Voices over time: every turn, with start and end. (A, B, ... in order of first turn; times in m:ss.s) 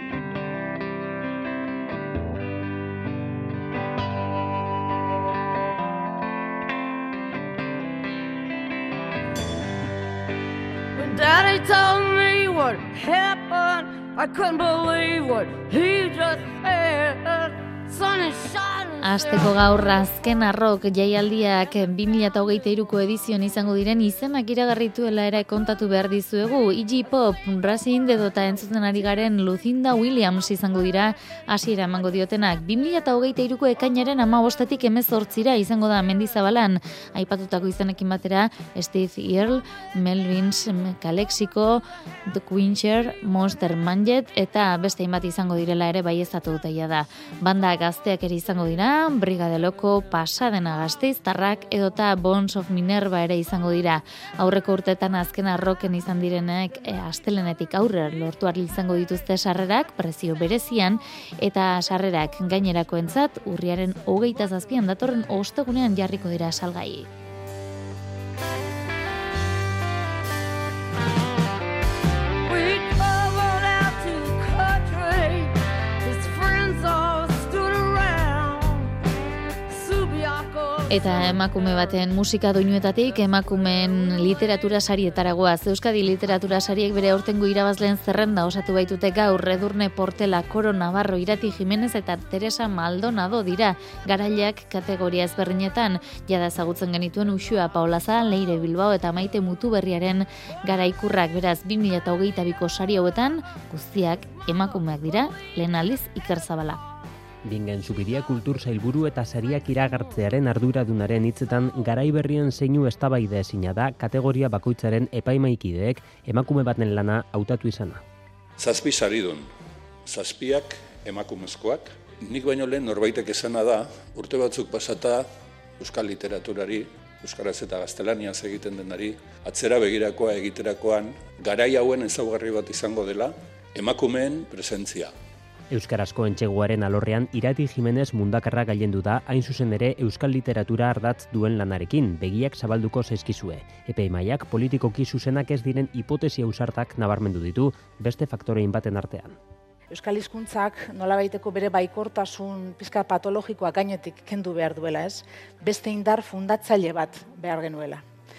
0:10.9-0:19.6 A
0:19.0-1:07.1 B
1:12.4-1:18.9 A
1:19.7-1:21.8 A
1:20.9-1:46.8 B
1:47.4-1:58.0 C
1:58.6-1:59.4 D
2:00.0-2:05.3 D
2:05.8-2:15.1 D
2:15.7-2:29.4 C
2:29.9-2:38.0 E